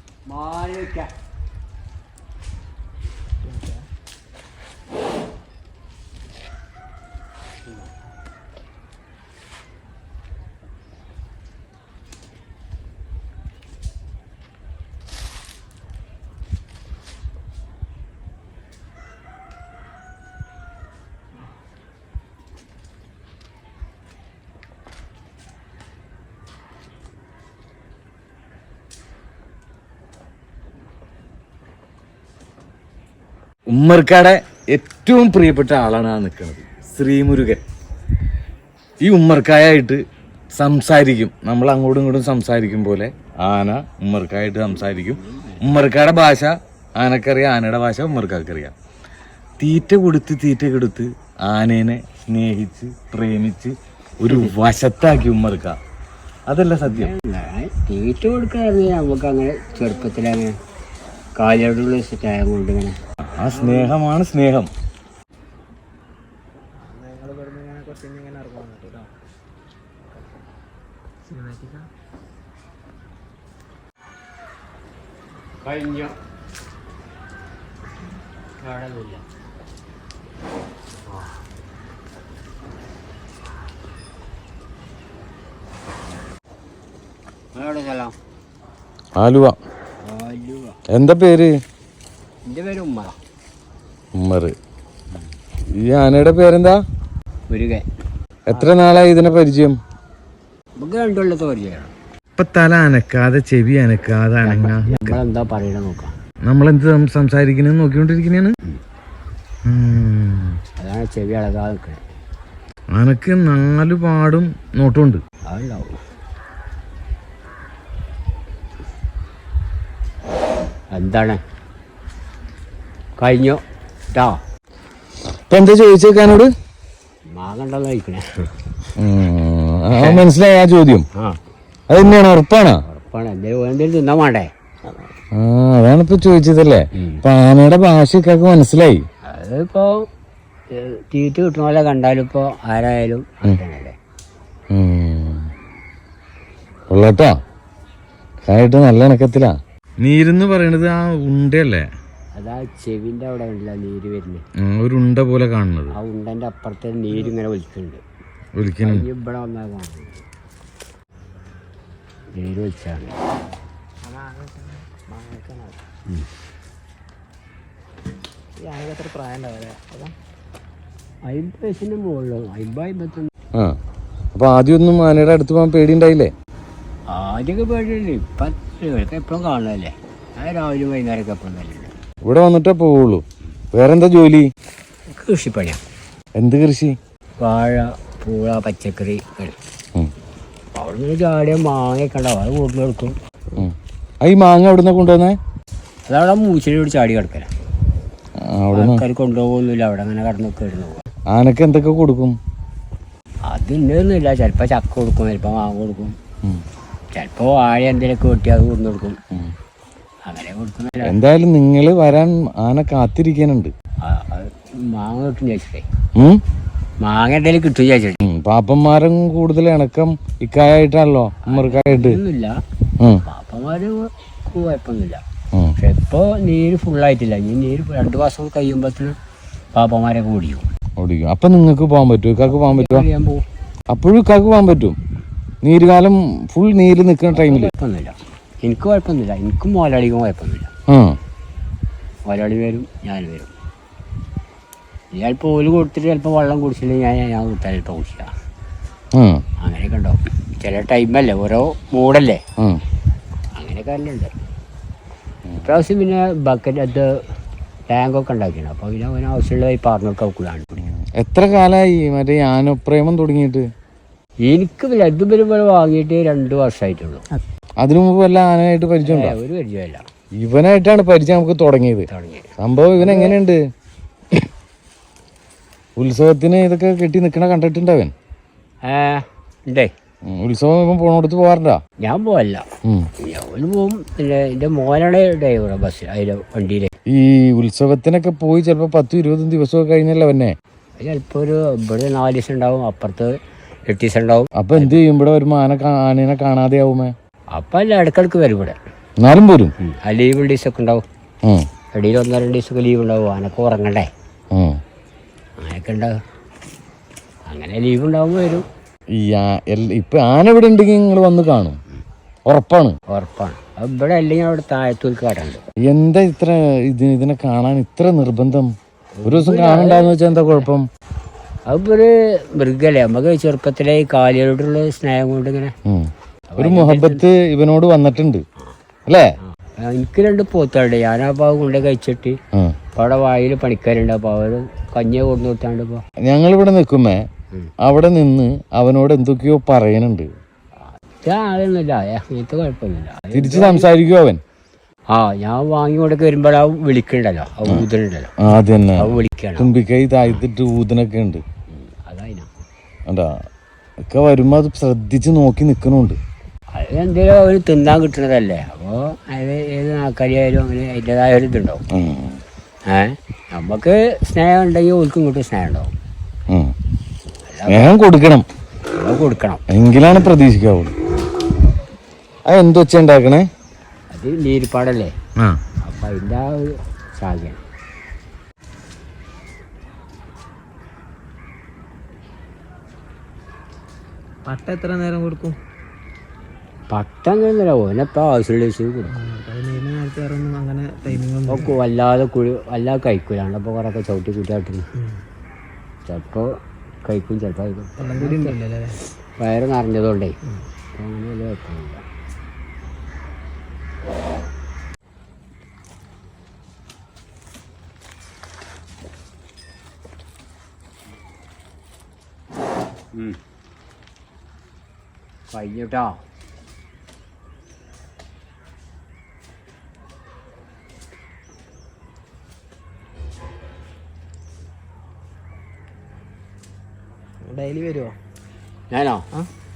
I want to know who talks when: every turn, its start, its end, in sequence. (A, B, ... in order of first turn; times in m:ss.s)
0:00.3-0:01.1 A
0:03.4-0:03.8 B
0:33.7-0:37.6 C
0:39.0-0:40.0 C
0:40.6-0:48.7 C
0:45.0-0:45.6 A
0:49.6-0:55.8 C
0:56.5-0:57.1 C
0:56.8-1:00.5 A
1:01.4-1:02.9 A
1:03.3-1:04.7 C
1:03.5-1:03.9 A
1:06.8-1:09.1 B
1:11.2-1:11.9 B
1:15.6-1:16.1 A
1:18.6-1:19.2 A
1:27.5-1:28.1 A
1:29.2-1:29.6 C
1:30.0-1:30.8 A
1:30.9-1:31.5 C
1:32.4-1:33.2 A
1:34.1-1:34.5 C
1:35.8-1:36.8 C
1:37.5-1:37.8 A
1:38.5-1:39.8 C
1:40.8-1:41.9 A
1:42.4-1:45.2 C
1:44.4-1:46.1 A
1:46.5-1:48.5 C
1:49.6-1:50.6 C
1:50.8-1:52.0 A
1:53.0-1:55.2 C
1:55.4-1:55.9 A
2:00.9-2:01.4 A
2:03.2-2:04.4 A
2:05.3-2:06.5 C
2:07.3-2:08.9 A
2:09.0-2:11.1 C
2:09.9-2:10.2 A
2:11.9-2:12.8 C
2:12.8-2:14.5 A
2:15.3-2:19.0 C
2:17.0-2:17.2 A
2:19.2-2:20.0 A
2:20.7-2:24.0 A
2:24.7-2:25.5 C
2:26.9-2:27.3 C
2:28.5-2:31.8 C
2:32.3-2:34.4 A
2:34.6-2:35.9 C
2:35.9-2:38.0 A
2:38.6-2:39.1 C
2:38.8-2:40.2 A
2:42.3-2:43.2 A
2:44.0-2:45.8 B
2:48.6-2:50.1 B
2:51.3-2:53.3 A
2:54.3-2:56.3 C
2:57.1-3:01.9 A
3:02.2-3:04.5 C
3:05.1-3:05.8 A
3:06.4-3:06.9 C
3:07.4-3:09.6 A
3:10.7-3:13.1 A
3:13.6-3:15.4 C
3:16.0-3:17.5 A
3:18.4-3:19.0 C
3:18.7-3:21.0 A
3:21.3-3:22.3 C
3:23.4-3:26.1 A
3:27.1-3:29.2 A
3:30.2-3:31.1 A
3:31.0-3:33.7 C
3:34.0-3:35.8 A
3:36.2-3:36.4 C
3:37.0-3:38.2 A
3:38.2-3:42.2 C
3:41.4-3:42.5 A
3:43.1-3:45.2 A
3:45.8-3:49.1 A
3:49.7-3:50.7 A
3:51.0-3:53.1 C
3:52.4-3:53.4 A
3:53.9-3:55.0 C
3:55.6-3:57.7 C
3:57.3-4:00.7 A
4:00.9-4:01.2 C
4:02.3-4:03.5 A
4:05.1-4:08.3 A
4:09.1-4:09.4 C
4:09.6-4:12.4 A
4:13.5-4:14.3 A
4:15.5-4:15.8 C
4:15.6-4:17.1 A
4:17.9-4:20.8 A
4:20.8-4:23.6 C
4:24.4-4:27.2 A
4:27.8-4:29.4 C
4:29.0-4:30.0 A
4:30.4-4:32.0 C
4:32.1-4:33.4 A
4:32.6-4:33.6 C
4:36.0-4:38.1 C
4:38.8-4:39.9 A
4:40.3-4:41.8 C
4:42.0-4:42.6 A
4:43.2-4:46.9 A
4:47.1-4:50.5 C
4:51.0-4:53.3 A
4:53.9-4:55.0 A
4:54.6-4:57.1 C
4:57.5-4:58.8 A
4:59.2-4:59.7 C
4:59.8-5:01.0 A
5:01.9-5:04.1 A
5:04.5-5:04.8 C
5:05.6-5:06.1 A
5:07.5-5:08.6 A
5:09.1-5:11.8 C
5:12.5-5:12.9 C
5:13.1-5:15.6 A
5:15.9-5:18.7 C
5:19.2-5:20.7 A
5:19.2-5:20.8 C
5:21.7-5:25.7 A
5:25.8-5:28.4 C
5:26.5-5:27.2 A
5:29.4-5:32.4 A
5:32.9-5:36.0 A
5:36.2-5:37.2 C
5:37.8-5:40.3 C
5:41.0-5:43.9 A
5:43.3-5:44.4 C
5:45.1-5:48.3 A
5:48.4-5:51.4 C
5:49.0-5:49.7 A
5:51.7-5:52.5 A
5:54.1-5:56.2 C
5:56.7-6:01.8 A
6:01.9-6:02.4 C
6:02.9-6:05.9 A
6:07.5-6:08.0 A
6:07.7-6:08.4 C
6:08.9-6:09.6 A
6:09.7-6:10.9 C
6:12.5-6:13.4 C
6:14.1-6:15.1 A
6:15.8-6:17.6 A
6:24.4-6:25.6 B
6:26.9-6:29.1 A
6:29.1-6:31.8 B
6:31.5-6:34.8 A
6:36.0-6:36.5 A
6:37.0-6:38.6 A
6:38.0-6:39.0 B
6:39.4-6:40.3 A
6:40.9-6:42.0 A
6:53.1-6:53.4 A
6:55.5-6:56.2 A
7:07.4-7:08.1 B
7:08.9-7:09.3 A